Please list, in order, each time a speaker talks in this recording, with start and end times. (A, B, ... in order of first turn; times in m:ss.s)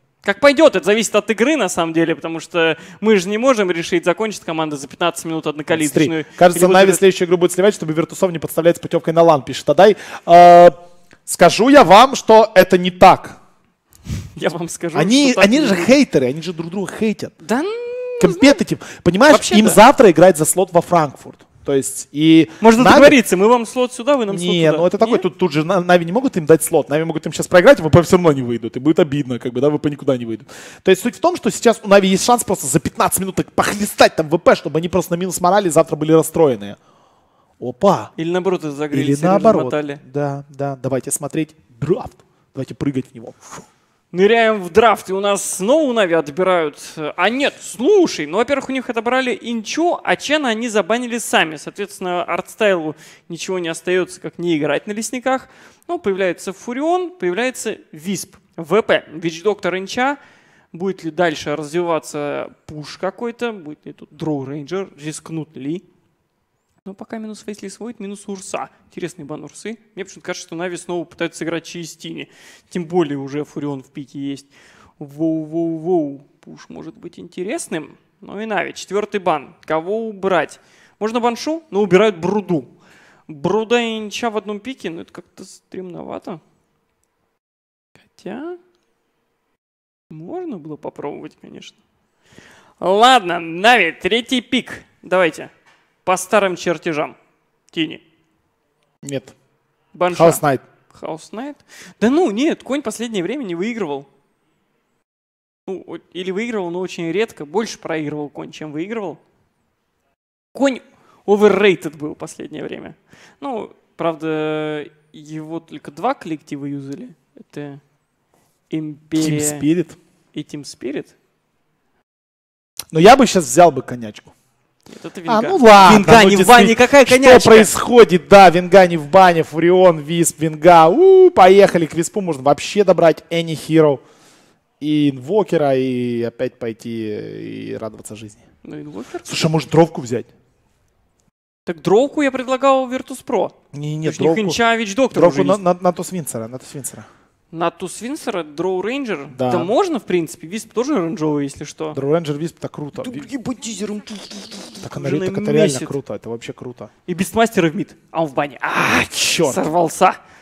0:00.2-0:07.0 A
0:05.7-0:13.4 B
0:14.4-0:15.9 A
0:14.9-0:17.3 B
0:17.4-0:18.6 A
0:18.2-0:23.2 B
0:19.3-0:19.8 A
0:22.6-0:25.2 A
0:24.3-0:36.8 B
0:37.6-0:38.1 B
0:38.2-0:40.0 A
0:38.9-0:43.6 B
0:44.1-1:00.2 A
1:00.7-1:05.8 A
1:06.8-1:22.7 A
1:23.3-1:26.4 A
1:28.1-1:28.6 A
1:30.1-1:31.8 A
1:32.8-1:35.5 A
1:36.0-1:37.2 A
1:37.7-1:38.0 A
1:39.0-1:39.3 B
1:39.9-1:44.1 A
1:40.1-1:40.6 B
1:45.6-1:49.2 A
1:50.5-1:57.8 A
1:58.7-1:59.6 A
1:59.2-2:00.0 B
2:00.3-2:01.1 A
2:02.9-2:04.3 B
2:04.9-2:07.7 A
2:05.3-2:14.0 B
2:14.8-2:18.4 B
2:18.6-2:19.4 A
2:19.2-2:20.3 B
2:21.6-2:25.6 A
2:23.7-2:24.6 B
2:25.1-2:27.1 B
2:27.5-2:32.0 A
2:29.3-2:29.7 B
2:31.9-2:33.3 B
2:33.0-2:36.0 A
2:34.8-2:36.9 B
2:37.0-2:40.2 A
2:38.8-2:39.6 B